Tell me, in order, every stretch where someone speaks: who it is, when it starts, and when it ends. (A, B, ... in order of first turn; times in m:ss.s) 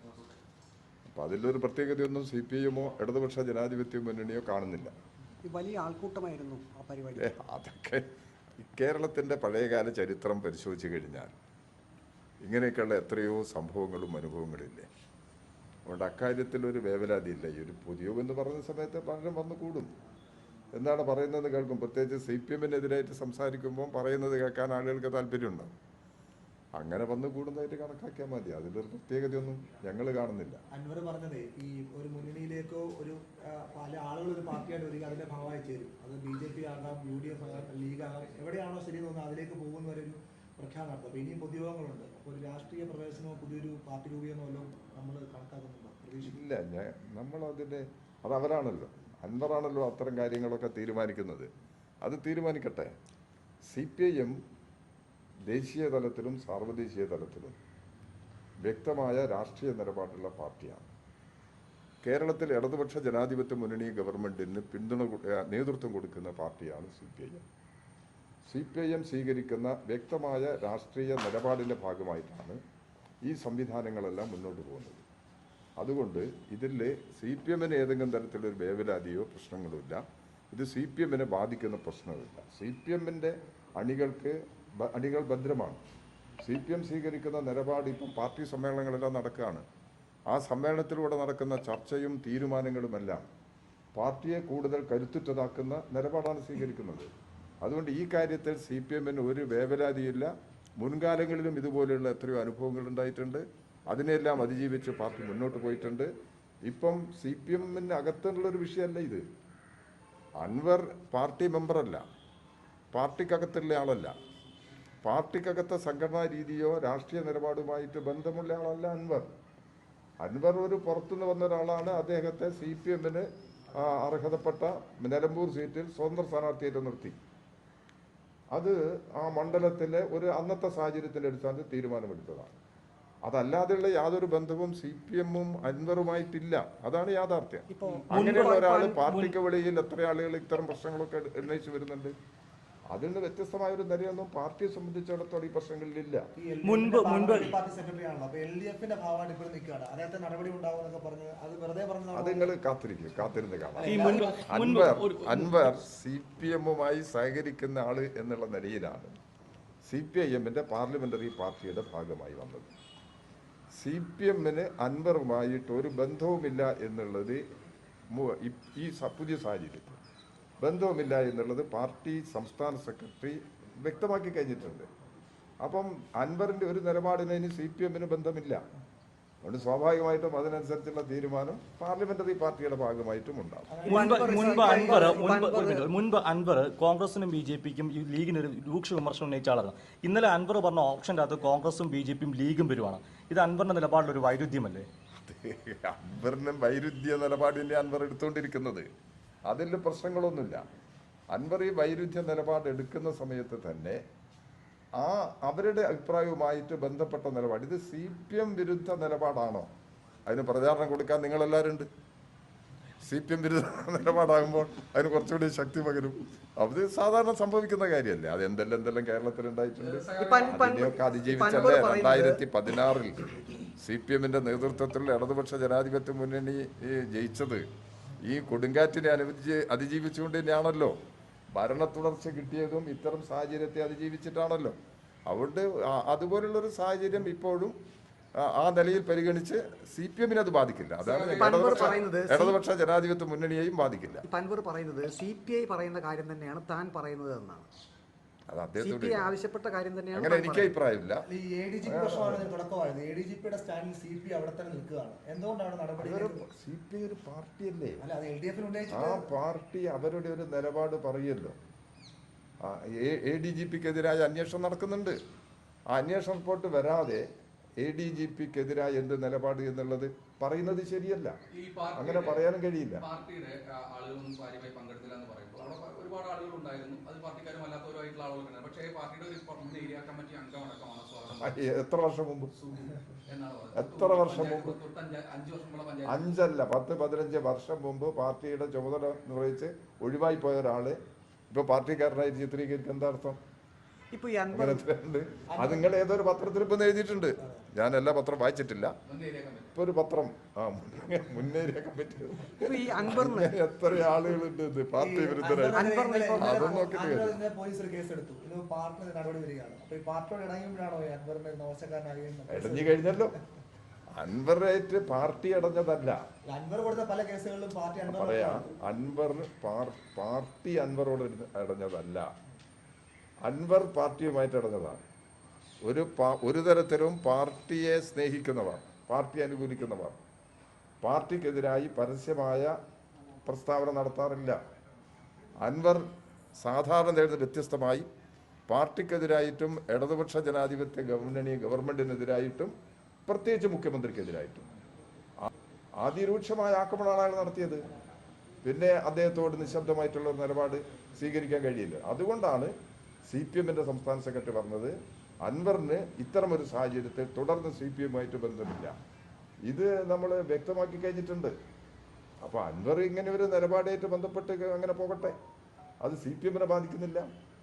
0:01.1-0:04.9 A
0:05.4-0:07.3 B
0:07.2-0:11.3 A
0:12.4-0:14.9 A
0:15.8-0:19.9 A
0:20.7-0:25.7 A
0:26.8-0:30.6 A
0:30.7-0:46.4 C
0:46.2-0:51.5 A
0:52.0-0:52.9 A
0:53.7-0:54.4 A
0:55.5-0:57.6 A
0:58.6-1:00.9 A
1:02.0-1:07.4 A
1:08.4-1:12.6 A
1:13.2-1:15.0 A
1:15.8-1:25.8 A
1:26.4-1:29.6 A
1:30.3-1:33.2 A
1:34.0-1:37.1 A
1:37.6-1:46.1 A
1:46.6-1:49.2 A
1:50.4-1:52.0 A
1:52.9-1:54.1 A
1:55.0-1:59.3 A
2:00.2-2:07.2 A
2:08.5-2:12.6 A
2:13.2-2:22.1 A
2:17.7-2:18.1 B
2:18.1-2:19.3 D
2:22.9-2:26.3 A
2:26.3-2:32.5 C
2:26.6-2:27.6 D
2:32.1-2:39.1 A
2:33.7-2:34.4 C
2:33.8-2:35.7 D
2:39.8-2:42.7 A
2:43.8-2:47.4 A
2:48.1-2:50.0 A
2:50.6-2:54.9 A
2:55.6-2:58.6 A
2:59.4-3:03.8 A
3:03.7-3:05.1 C
3:03.8-3:14.9 D
3:03.9-3:05.9 B
3:15.2-3:18.9 A
3:19.4-3:20.6 A
3:21.3-3:24.0 A
3:25.0-3:29.7 A
3:30.2-3:31.9 A
3:33.0-3:43.2 A
3:39.8-3:40.9 E
3:40.2-3:42.4 B
3:43.8-3:47.6 A
3:48.2-3:50.9 A
3:51.5-3:57.7 A
3:58.4-4:04.2 A
4:01.0-4:02.0 E
4:01.4-4:02.6 B
4:04.2-4:07.7 B
4:08.5-4:09.3 A
4:08.8-4:10.7 B
4:10.1-4:11.2 A
4:11.3-4:16.4 C
4:11.8-4:12.5 A
4:16.0-4:18.0 A
4:18.0-4:19.3 C
4:18.9-4:21.6 A
4:22.6-4:25.2 A
4:25.9-4:27.2 A
4:27.8-4:31.4 A
4:31.5-4:32.4 E
4:31.9-4:33.0 A
4:33.0-4:41.6 E
4:41.4-4:42.5 A
4:42.6-4:46.2 E
4:43.7-4:44.8 A
4:46.0-4:51.0 A
4:51.5-4:53.4 A
4:54.1-4:54.8 B
4:54.5-4:58.9 A
4:55.5-4:55.9 C
4:59.1-4:59.7 E
4:59.7-5:07.4 A
5:02.6-5:03.5 B
5:05.0-5:13.3 C
5:05.7-5:06.8 B
5:12.5-5:13.3 A
5:14.2-5:16.2 A
5:16.5-5:18.7 C
5:18.0-5:22.3 A
5:23.4-5:25.0 A
5:25.8-5:30.2 A
5:31.0-5:32.7 A
5:33.4-5:34.6 A
5:35.6-5:36.0 A
5:36.6-5:38.1 A
5:38.7-5:42.7 A
5:43.2-5:44.7 A
5:46.0-5:47.8 A
5:48.6-5:52.7 A
5:53.2-5:58.9 A
5:59.7-6:01.5 A
6:02.4-6:05.3 A
6:06.0-6:07.3 A